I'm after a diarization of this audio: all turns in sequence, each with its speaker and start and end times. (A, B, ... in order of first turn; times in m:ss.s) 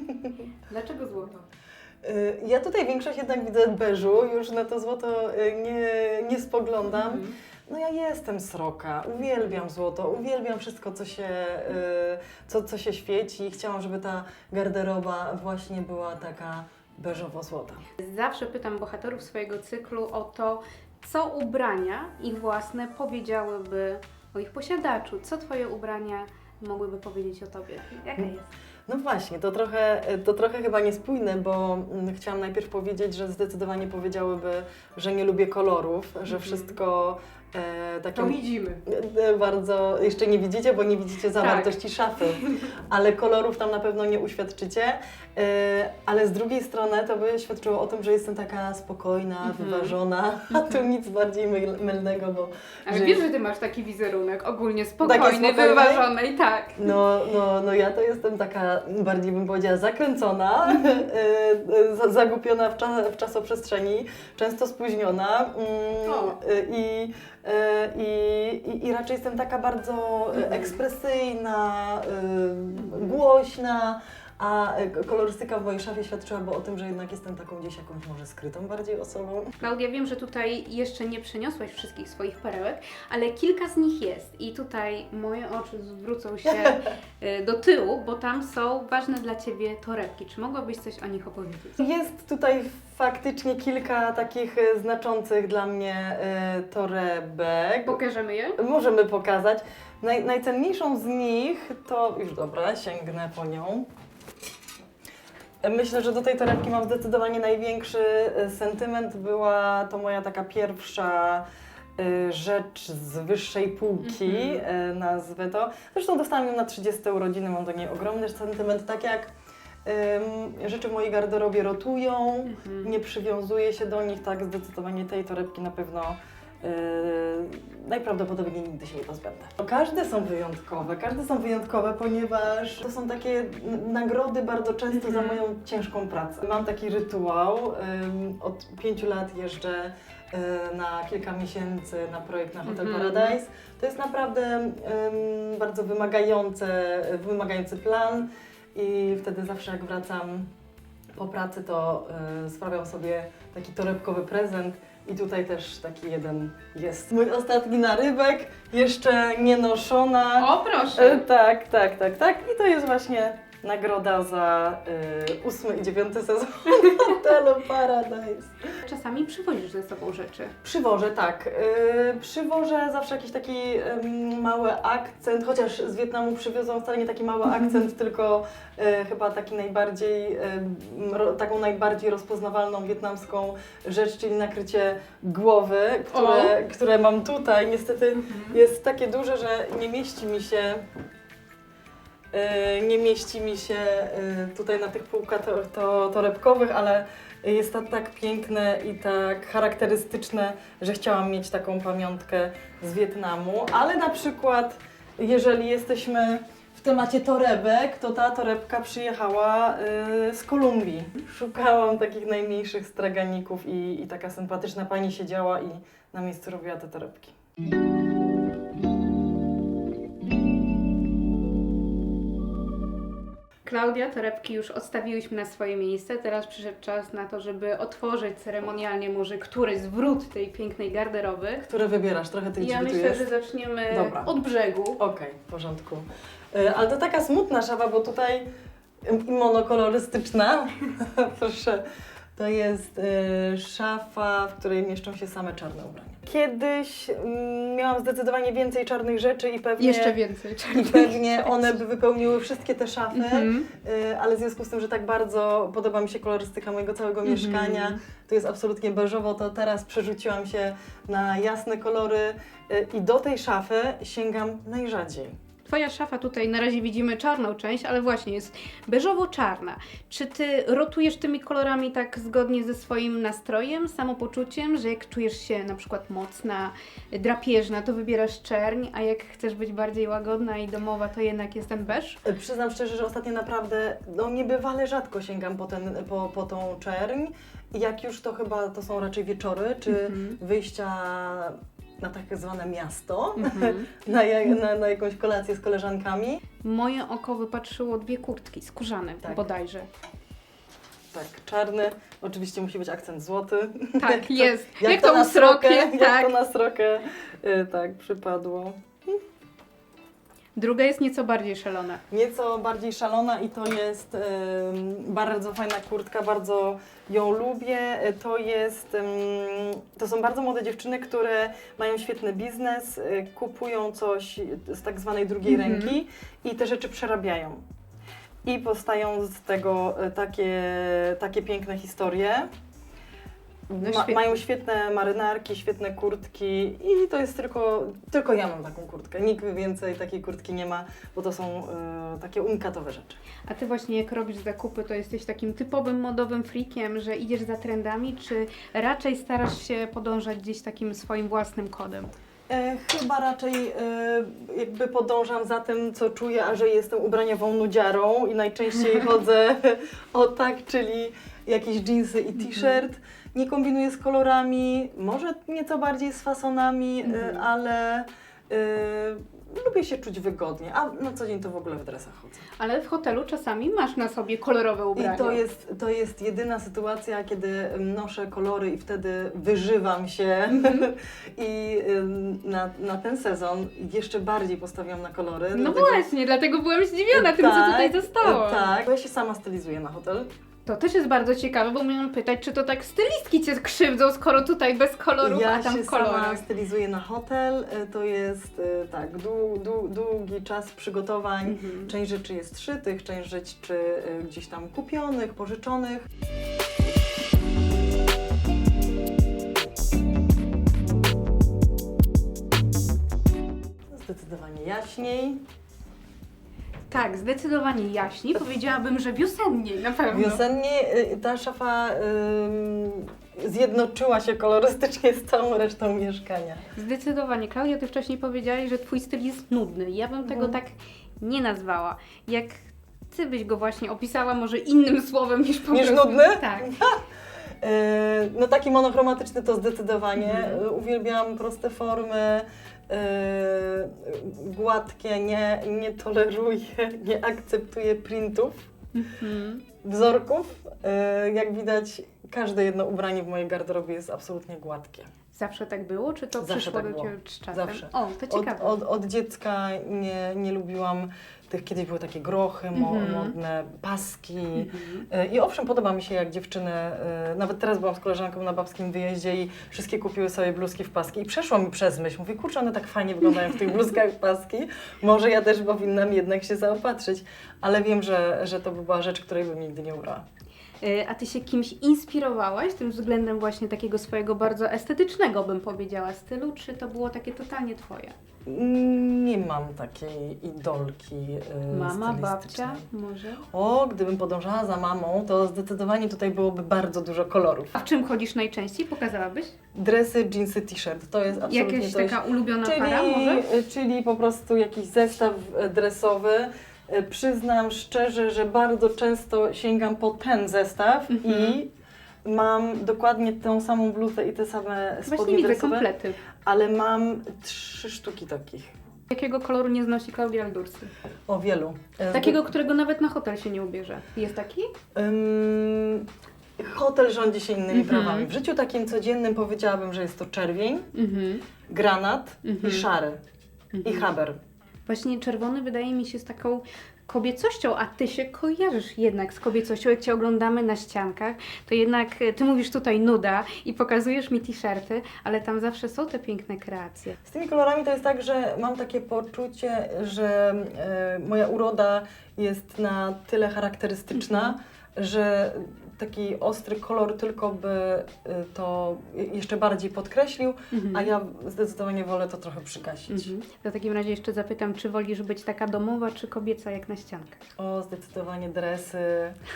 0:00.7-0:01.4 A
0:02.0-0:17.8 B
0:06.8-0:07.3 A
0:18.0-0:28.5 A
0:28.9-0:53.3 B
0:36.3-0:36.8 A
0:38.1-0:38.8 A
0:41.4-0:42.6 A
0:49.4-0:49.9 A
0:50.5-0:50.8 A
0:52.9-0:56.9 A
0:55.0-0:56.1 B
0:56.8-1:19.5 B
1:06.0-1:06.4 A
1:10.3-1:10.8 A
1:12.7-1:13.2 A
1:19.6-1:31.9 A
1:26.4-1:26.8 B
1:31.8-1:38.0 B
1:37.8-1:38.6 A
1:38.6-1:43.9 B
1:45.6-1:51.4 B
1:52.0-1:59.3 B
1:54.0-1:54.6 A
1:59.8-2:30.5 B
2:02.4-2:02.9 A
2:14.9-2:15.4 A
2:22.6-2:23.4 A
2:31.2-2:48.5 B
2:40.4-2:41.2 A
2:48.8-2:50.6 A
2:50.6-3:10.8 B
3:06.1-3:06.5 A
3:08.1-3:08.6 A
3:12.3-3:37.3 B
3:43.6-3:51.7 A
3:51.6-3:53.3 B
3:52.6-3:55.0 A
3:53.9-3:54.3 B
3:55.0-3:58.4 B
3:59.0-4:01.8 B
4:02.4-4:10.2 B
4:09.8-4:11.7 A
4:10.7-4:25.3 B
4:13.1-4:13.7 A
4:17.2-4:18.0 A
4:25.6-4:42.2 A
4:42.2-4:56.4 B
4:49.9-4:50.4 A
4:53.4-4:53.9 A
4:56.6-4:59.9 A
5:01.1-5:08.8 B
5:04.0-5:06.3 A
5:10.6-5:12.0 A
5:12.1-5:27.6 B
5:25.4-5:25.9 A
5:28.4-5:32.5 B
5:33.7-5:43.2 B
5:33.8-5:34.4 A
5:43.5-5:52.1 A
5:52.5-6:12.4 B
6:02.4-6:02.7 A
6:07.0-6:07.4 A
6:12.6-6:15.4 A
6:14.9-6:26.0 B
6:20.5-6:20.9 A
6:25.5-6:28.7 A
6:27.1-6:30.3 B
6:30.6-6:36.4 A
6:35.2-6:46.1 B
6:41.4-6:41.9 A
6:53.9-6:55.4 B
6:56.9-7:00.4 A
7:00.1-7:06.6 B
7:06.8-7:16.7 A
7:10.2-7:10.6 B
7:15.7-7:17.0 B
7:17.6-7:28.6 B
7:20.2-7:20.6 A
7:28.9-7:29.6 A
7:29.8-7:35.1 B
7:35.3-7:38.8 A
7:36.4-8:00.2 B
7:42.7-7:43.3 A
7:44.6-7:45.0 A
8:00.8-8:08.1 A
8:08.4-8:12.8 B
8:11.7-8:13.4 A
8:13.5-8:17.7 B
8:17.8-8:19.5 A
8:19.7-8:31.7 B
8:21.4-8:23.5 A
8:31.1-8:31.6 A
8:32.2-8:35.8 B
8:35.1-8:36.2 A
8:36.4-8:38.7 B
8:39.1-8:40.9 A
8:41.3-8:42.5 B
8:42.1-8:44.7 A
8:44.9-8:46.0 B
8:46.6-8:50.9 B
8:47.7-8:48.3 A
8:50.9-8:51.4 A
8:51.7-8:53.2 B
8:52.4-8:52.8 A
8:53.7-8:54.1 A
8:53.8-8:54.4 B
8:54.9-9:07.2 A
9:07.3-9:23.3 B
9:14.1-9:14.5 A
9:20.7-9:21.1 A
9:23.1-9:27.4 A
9:27.6-9:29.4 B